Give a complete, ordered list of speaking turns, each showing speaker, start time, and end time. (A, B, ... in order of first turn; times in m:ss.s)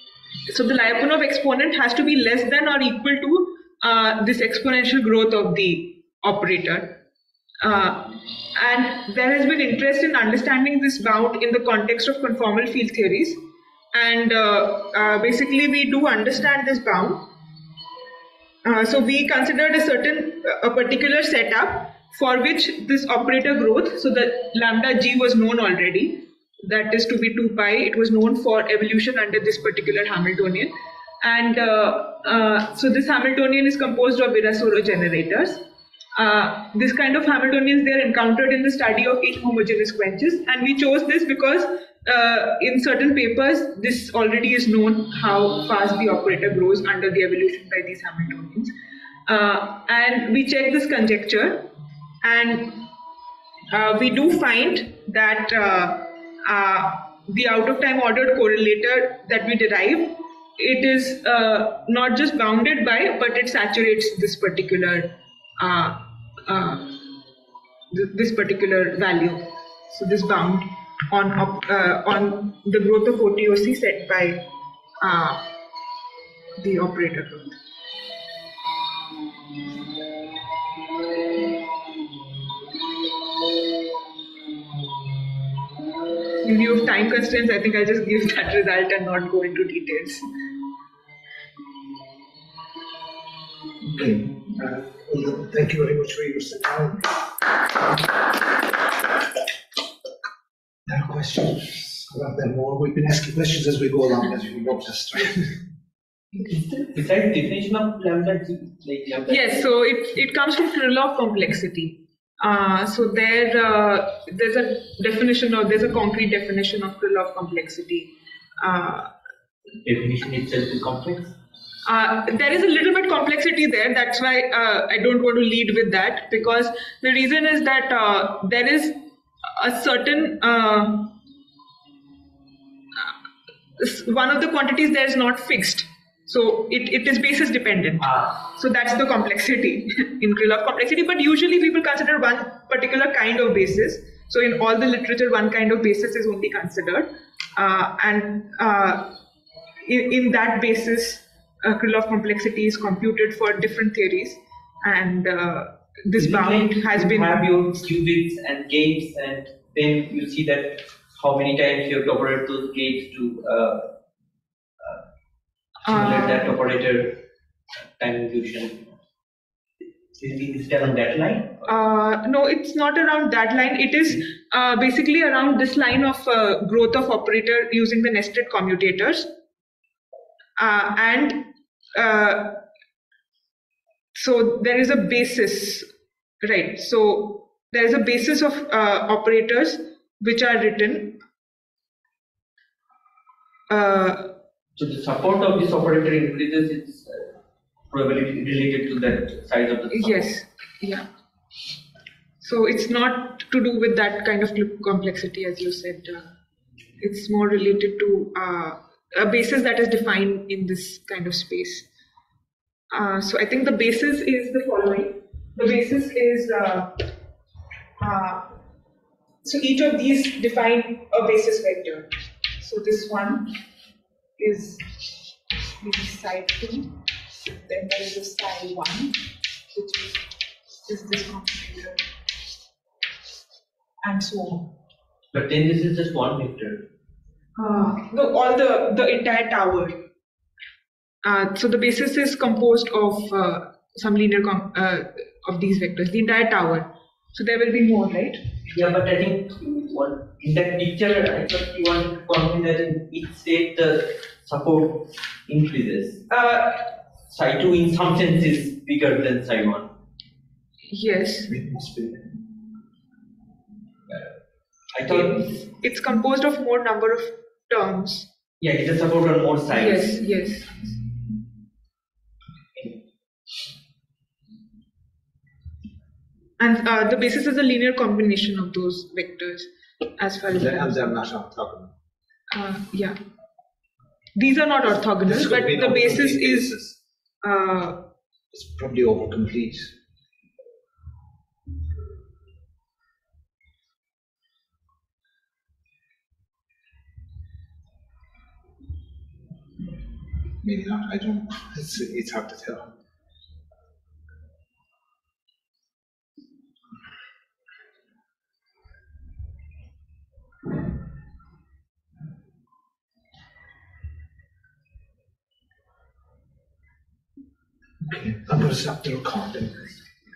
0:00.5-0:07.0 A
0:07.6-0:13.4 A
0:13.9-0:17.2 A
0:18.6-0:35.6 A
0:36.2-0:48.7 A
0:49.3-0:51.7 A
0:52.2-0:52.9 A
0:53.7-1:07.0 A
1:07.9-1:14.5 A
1:15.0-1:15.4 A
1:16.6-1:17.5 A
1:26.4-1:30.2 A
1:33.8-1:37.3 B
1:40.9-1:45.6 B
1:46.4-1:49.6 C
1:49.3-1:59.1 A
1:59.8-2:01.4 C
2:01.8-2:11.2 A
2:13.8-2:29.2 A
2:18.0-2:18.3 C
2:29.8-2:37.5 A
2:36.2-2:43.9 C
2:45.9-2:46.5 A
2:45.9-2:47.2 C
2:48.0-2:49.0 C
2:50.2-2:51.6 C
2:51.7-2:59.3 A
3:00.6-3:02.6 A
3:04.2-3:05.9 A
3:06.4-3:11.2 A
3:13.7-3:14.3 A
3:14.8-3:17.3 C
3:17.9-3:20.3 C
3:19.9-3:21.0 A
3:22.4-3:26.3 A
3:27.0-3:31.9 A
3:32.9-3:37.1 A
3:38.0-3:38.5 A
3:39.4-3:42.1 A
3:42.6-3:43.6 A
3:44.4-3:45.1 A
3:45.8-3:46.9 A
3:47.5-3:49.2 A
3:49.7-3:50.3 A
3:50.9-3:52.0 A
3:54.0-3:54.7 A
3:55.3-3:56.9 C
3:57.6-4:00.0 A
4:01.2-4:08.4 A
4:08.7-4:16.2 C
4:16.3-4:16.9 A
4:17.3-4:19.9 C
4:20.9-4:21.5 A
4:21.5-4:22.4 B
4:24.9-4:25.6 C
4:25.1-4:28.3 A
4:28.6-4:30.2 C
4:29.7-4:30.8 A
4:36.6-4:41.1 A
4:40.5-4:41.9 B
4:42.5-4:43.2 A
4:44.4-4:46.8 A
4:45.2-4:47.0 B
4:47.4-4:48.0 A
4:48.5-4:49.9 B
5:00.6-5:02.9 B
5:18.0-5:20.1 B